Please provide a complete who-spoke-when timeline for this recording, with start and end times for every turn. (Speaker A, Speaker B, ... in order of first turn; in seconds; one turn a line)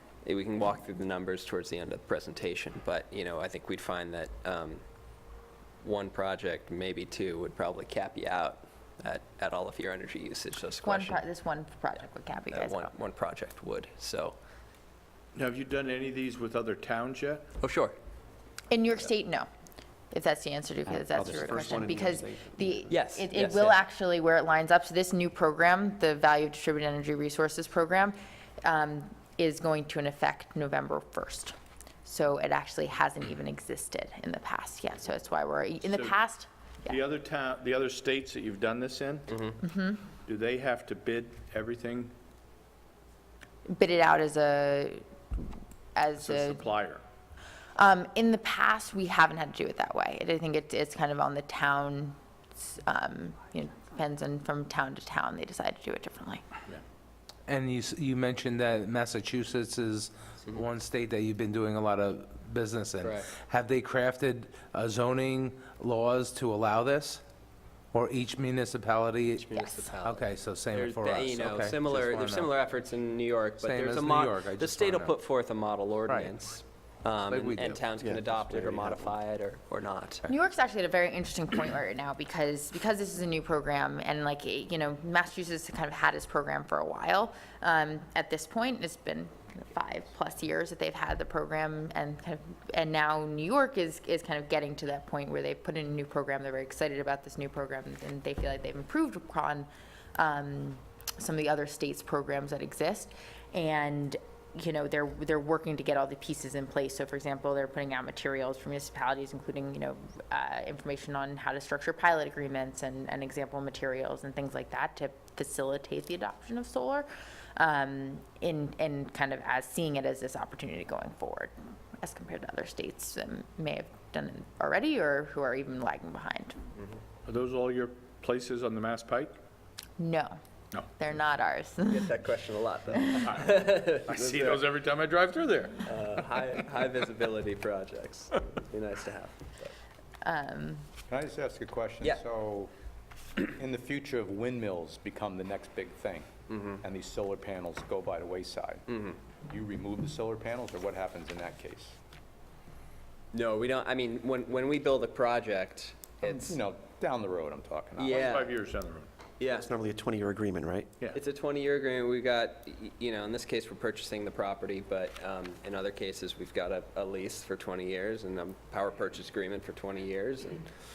Speaker A: 0.2-4.8
Speaker A: 5.8-11.2
Speaker B: 10.8-12.9
Speaker A: 12.5-14.4
Speaker C: 15.3-17.4
Speaker A: 17.6-17.9
Speaker B: 18.7-19.5
Speaker B: 20.1-31.5
Speaker D: 21.1-22.9
Speaker A: 22.9-23.8
Speaker B: 32.1-37.0
Speaker C: 35.9-36.2
Speaker C: 36.9-39.5
Speaker B: 39.6-40.0
Speaker C: 40.2-42.1
Speaker B: 43.7-45.5
Speaker B: 46.0-46.7
Speaker C: 46.2-47.0
Speaker B: 47.8-56.4
Speaker E: 57.5-67.2
Speaker A: 63.0-63.3
Speaker E: 67.9-72.5
Speaker A: 69.3-80.2
Speaker E: 73.6-75.2
Speaker E: 76.1-76.3
Speaker E: 77.3-77.8
Speaker D: 78.0-79.2
Speaker B: 80.3-126.6
Speaker C: 127.3-129.3
Speaker B: 130.0-130.4
Speaker B: 131.0-132.1
Speaker A: 131.9-134.6
Speaker C: 133.2-135.8
Speaker A: 135.8-139.7
Speaker B: 140.2-140.9
Speaker F: 141.1-142.7
Speaker F: 143.4-152.0
Speaker A: 146.5-146.8
Speaker A: 148.9-149.2
Speaker A: 153.3-156.6
Speaker F: 156.4-158.2
Speaker A: 158.0-158.6
Speaker C: 158.1-159.1
Speaker A: 159.4-159.7
Speaker D: 159.5-160.9
Speaker A: 161.1-170.7